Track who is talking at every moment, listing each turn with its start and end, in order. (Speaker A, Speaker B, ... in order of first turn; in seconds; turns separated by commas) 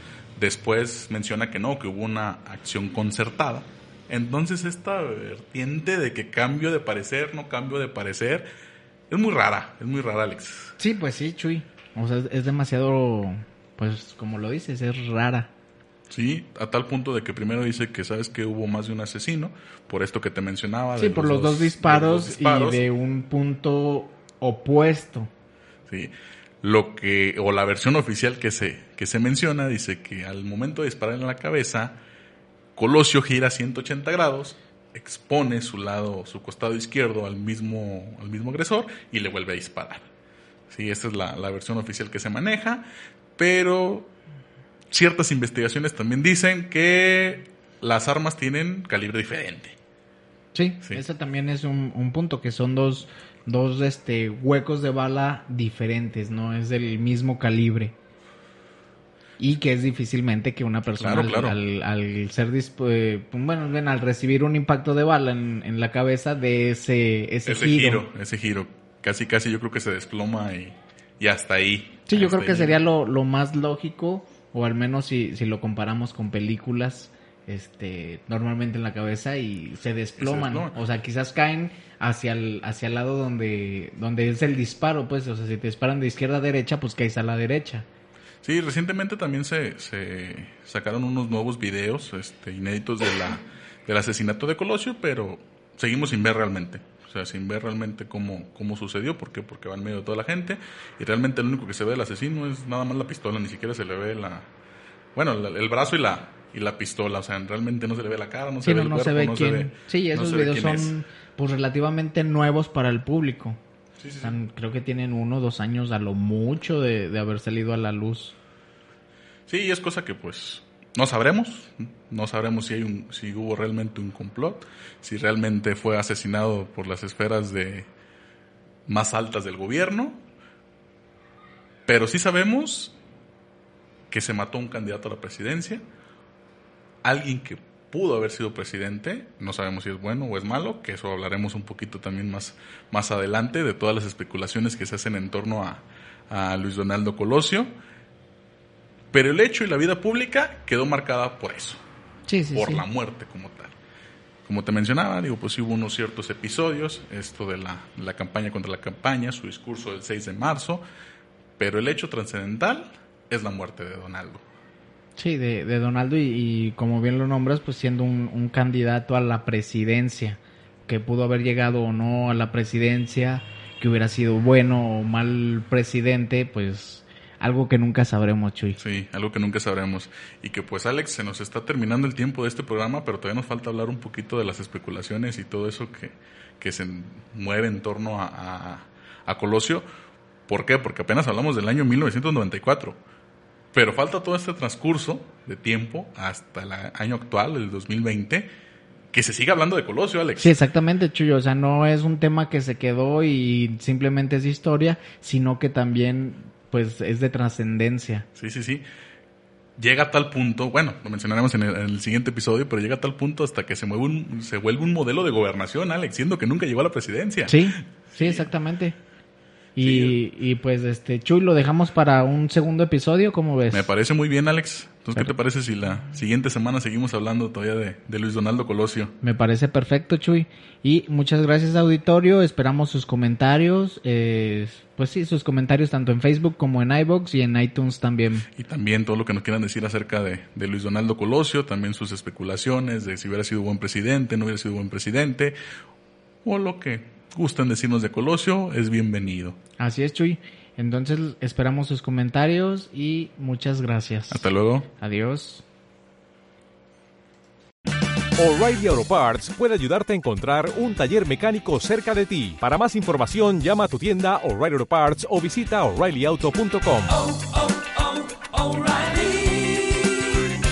Speaker A: 0.4-8.5, Speaker A: 9.1-10.8, Speaker B: 10.8-15.5, Speaker A: 16.1-22.9, Speaker B: 21.0-25.3, Speaker A: 25.9-32.0, Speaker A: 32.8-40.1, Speaker A: 40.7-44.1, Speaker A: 44.9-49.8, Speaker B: 50.5-57.9, Speaker B: 59.4-68.1, Speaker A: 61.0-61.6, Speaker A: 67.5-72.8, Speaker B: 72.1-87.9, Speaker A: 80.2-80.8, Speaker A: 88.4-104.5, Speaker A: 105.2-110.9, Speaker B: 108.6-113.6, Speaker A: 114.0-114.4, Speaker B: 114.2-118.3, Speaker A: 119.5-127.9, Speaker A: 128.9-130.2, Speaker A: 131.9-133.0, Speaker A: 134.1-135.8, Speaker A: 137.0-147.7, Speaker A: 149.1-151.8, Speaker B: 152.3-152.8, Speaker A: 152.5-153.7, Speaker A: 154.4-160.8, Speaker A: 161.6-164.4, Speaker B: 165.2-178.8, Speaker A: 178.8-189.9, Speaker A: 190.5-193.0, Speaker A: 193.7-198.5, Speaker A: 199.1-200.5, Speaker B: 200.4-208.3, Speaker A: 208.4-208.8, Speaker A: 209.8-218.5, Speaker B: 217.5-219.0, Speaker B: 219.8-223.9, Speaker A: 219.8-220.2, Speaker A: 223.7-229.1, Speaker B: 229.2-238.5, Speaker A: 238.5-245.6, Speaker A: 246.4-249.6, Speaker B: 249.8-254.5, Speaker A: 254.3-254.9, Speaker B: 255.0-255.6, Speaker C: 258.4-270.1